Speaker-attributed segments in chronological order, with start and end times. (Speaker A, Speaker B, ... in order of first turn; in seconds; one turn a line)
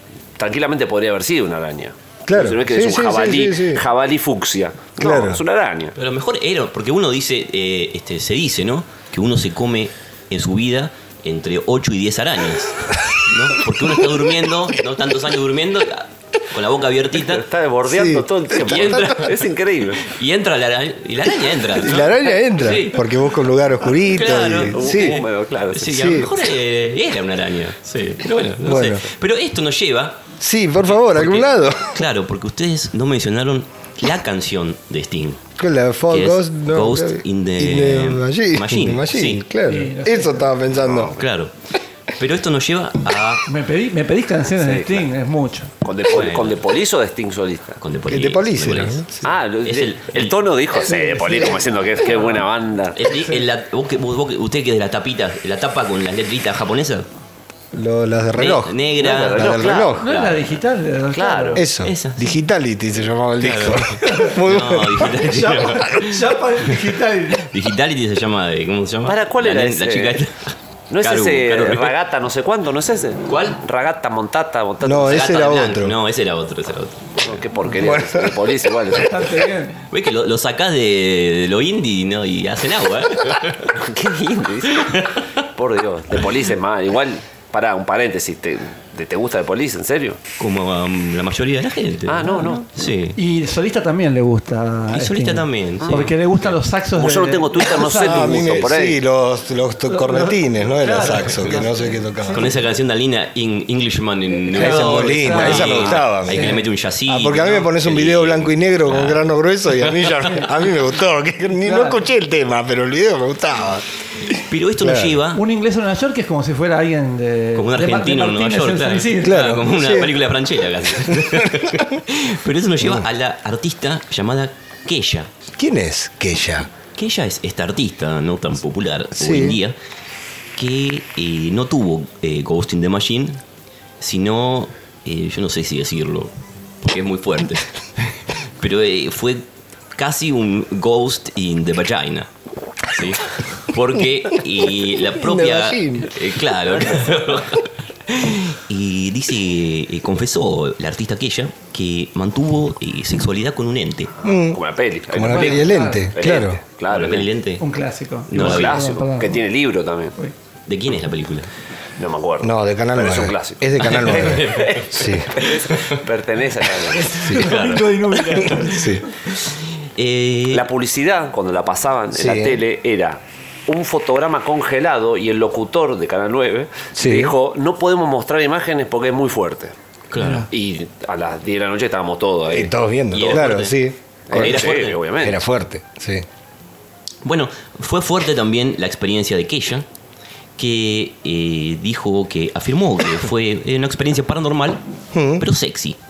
Speaker A: 0.4-5.9
Speaker B: 2.3-3.8
Speaker B: 5.0-5.4
Speaker C: 6.0-17.4
Speaker A: 17.2-20.1
Speaker B: 17.9-18.2
Speaker C: 18.6-19.5
Speaker C: 20.0-23.0
Speaker B: 21.8-25.2
Speaker C: 24.0-30.2
Speaker A: 24.7-26.1
Speaker B: 25.9-26.3
Speaker B: 28.6-29.0
Speaker B: 30.4-32.0
Speaker C: 30.8-35.4
Speaker B: 35.6-41.1
Speaker C: 36.1-39.4
Speaker D: 39.7-40.5
Speaker A: 40.8-41.2
Speaker C: 41.2-41.5
Speaker C: 42.1-43.5
Speaker D: 43.5-45.7
Speaker A: 44.6-45.1
Speaker A: 45.8-47.8
Speaker C: 46.1-46.6
Speaker C: 47.8-49.1
Speaker B: 48.1-49.3
Speaker A: 49.2-53.0
Speaker C: 49.6-50.4
Speaker D: 50.9-52.4
Speaker C: 52.9-57.1
Speaker D: 53.1-53.4
Speaker B: 57.7-58.8
Speaker C: 58.4-60.5
Speaker A: 59.0-60.0
Speaker B: 59.3-60.0
Speaker D: 60.0-61.6
Speaker A: 61.1-61.6
Speaker B: 61.5-65.2
Speaker C: 61.8-62.4
Speaker C: 63.4-66.8
Speaker D: 64.0-64.3
Speaker D: 65.1-67.5
Speaker C: 67.4-71.9
Speaker A: 69.0-70.2
Speaker A: 70.9-75.1
Speaker C: 73.3-73.6
Speaker B: 74.8-75.9
Speaker C: 75.0-77.4
Speaker A: 77.2-79.4
Speaker B: 77.8-78.3
Speaker D: 78.9-79.8
Speaker C: 79.9-83.8
Speaker A: 83.7-84.9
Speaker C: 84.7-85.2
Speaker A: 85.5-90.2
Speaker C: 90.4-93.2
Speaker A: 92.1-92.7
Speaker D: 92.3-92.5
Speaker D: 93.1-98.6
Speaker C: 94.9-96.5
Speaker A: 95.8-96.1
Speaker A: 97.0-99.0
Speaker B: 98.0-102.5
Speaker D: 99.9-102.5
Speaker C: 102.3-109.2
Speaker D: 104.5-106.6
Speaker B: 104.5-113.8
Speaker D: 111.6-112.0
Speaker C: 114.3-115.4
Speaker B: 114.8-115.2
Speaker D: 115.3-119.4
Speaker C: 117.5-125.3
Speaker B: 119.2-120.1
Speaker B: 121.1-121.8
Speaker B: 122.8-123.1
Speaker B: 125.5-126.7
Speaker C: 127.0-129.7
Speaker B: 129.2-129.6
Speaker C: 130.6-133.4
Speaker C: 134.0-139.4
Speaker C: 139.9-142.3
Speaker C: 142.8-154.1
Speaker B: 145.1-146.1
Speaker B: 154.2-156.6
Speaker A: 154.2-157.3
Speaker D: 155.3-156.1
Speaker C: 156.9-157.6
Speaker D: 157.6-159.4
Speaker A: 158.3-160.1
Speaker C: 158.3-158.8
Speaker C: 160.7-161.5
Speaker A: 162.0-167.1
Speaker B: 162.4-165.3
Speaker C: 163.8-166.0
Speaker D: 166.9-169.0
Speaker C: 167.3-170.7
Speaker B: 168.6-169.0
Speaker A: 170.5-179.7
Speaker B: 172.1-172.6
Speaker B: 176.9-177.3
Speaker C: 180.1-180.5
Speaker D: 180.2-180.5
Speaker A: 180.5-183.5
Speaker B: 182.5-186.2
Speaker C: 183.1-183.8
Speaker A: 184.3-185.4
Speaker C: 184.3-185.0
Speaker C: 187.2-189.8
Speaker C: 190.6-194.8
Speaker B: 195.1-195.4
Speaker C: 195.4-196.0